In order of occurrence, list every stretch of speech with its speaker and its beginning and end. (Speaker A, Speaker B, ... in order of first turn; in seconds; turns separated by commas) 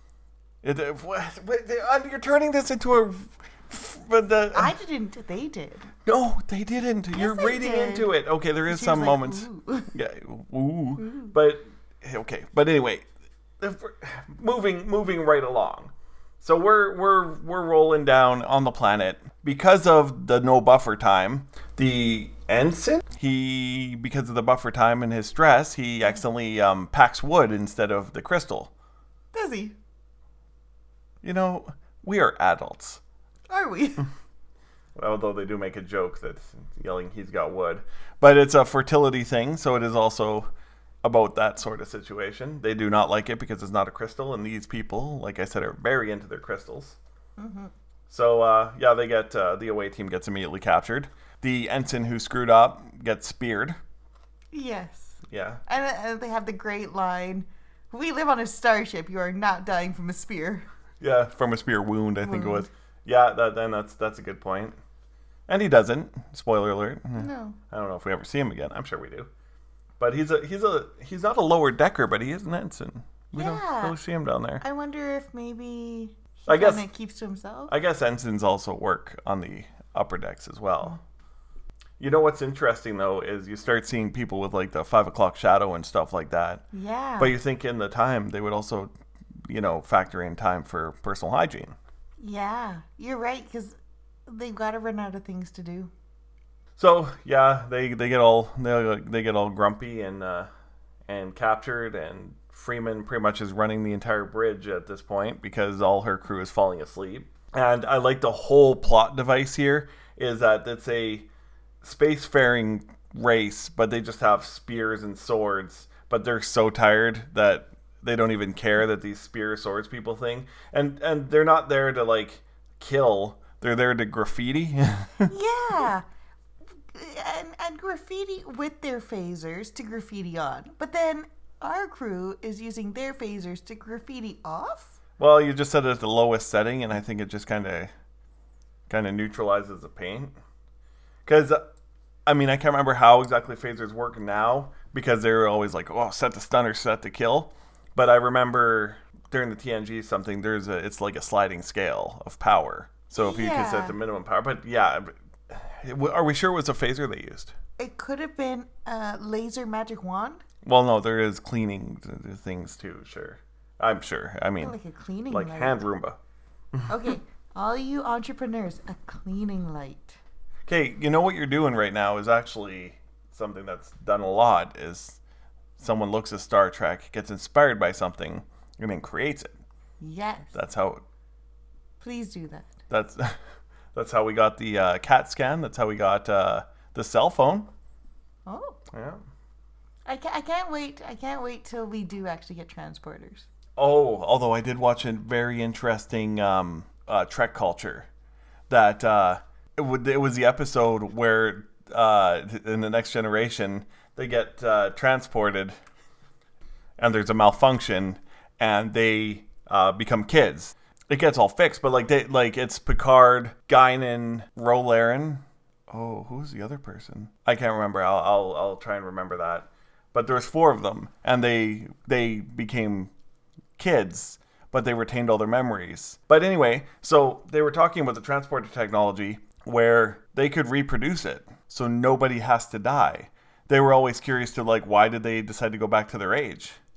Speaker A: 0.6-4.7, Speaker B: 4.5-5.9, Speaker A: 6.0-13.1, Speaker B: 7.1-8.1, Speaker B: 8.7-9.9, Speaker B: 11.0-11.3, Speaker A: 13.6-28.7, Speaker B: 29.3-29.8, Speaker A: 31.2-33.0, Speaker B: 33.5-34.1, Speaker A: 35.0-40.5, Speaker A: 41.0-47.0, Speaker B: 47.4-47.7, Speaker A: 48.1-53.8, Speaker B: 54.5-60.6, Speaker A: 55.3-55.6, Speaker A: 61.0-64.8, Speaker B: 62.2-62.7, Speaker A: 65.5-69.3, Speaker B: 67.2-67.6, Speaker A: 70.0-74.6, Speaker B: 73.3-74.0, Speaker B: 74.6-77.7, Speaker A: 76.5-76.8, Speaker A: 77.7-81.0, Speaker A: 82.0-86.6, Speaker B: 86.7-87.3, Speaker A: 87.2-88.9, Speaker A: 89.5-91.8, Speaker B: 92.2-95.9, Speaker A: 96.8-100.5, Speaker A: 101.1-111.3, Speaker A: 111.8-125.3, Speaker B: 125.3-126.0, Speaker B: 126.9-135.0, Speaker A: 135.2-137.9, Speaker A: 138.9-140.3, Speaker A: 141.3-141.6, Speaker A: 142.3-157.6, Speaker B: 153.2-154.0, Speaker B: 157.8-160.4, Speaker A: 160.6-164.8, Speaker B: 164.6-165.8, Speaker A: 165.3-166.2, Speaker B: 166.9-170.2, Speaker A: 170.7-175.2, Speaker A: 175.8-179.6, Speaker B: 180.0-180.6, Speaker A: 180.5-181.0, Speaker B: 182.0-182.8, Speaker A: 182.9-183.4, Speaker A: 183.9-187.7, Speaker B: 188.5-188.8, Speaker A: 188.9-189.2, Speaker B: 190.1-193.5, Speaker A: 193.8-198.1, Speaker A: 198.7-205.8, Speaker A: 207.0-223.1, Speaker A: 223.8-236.8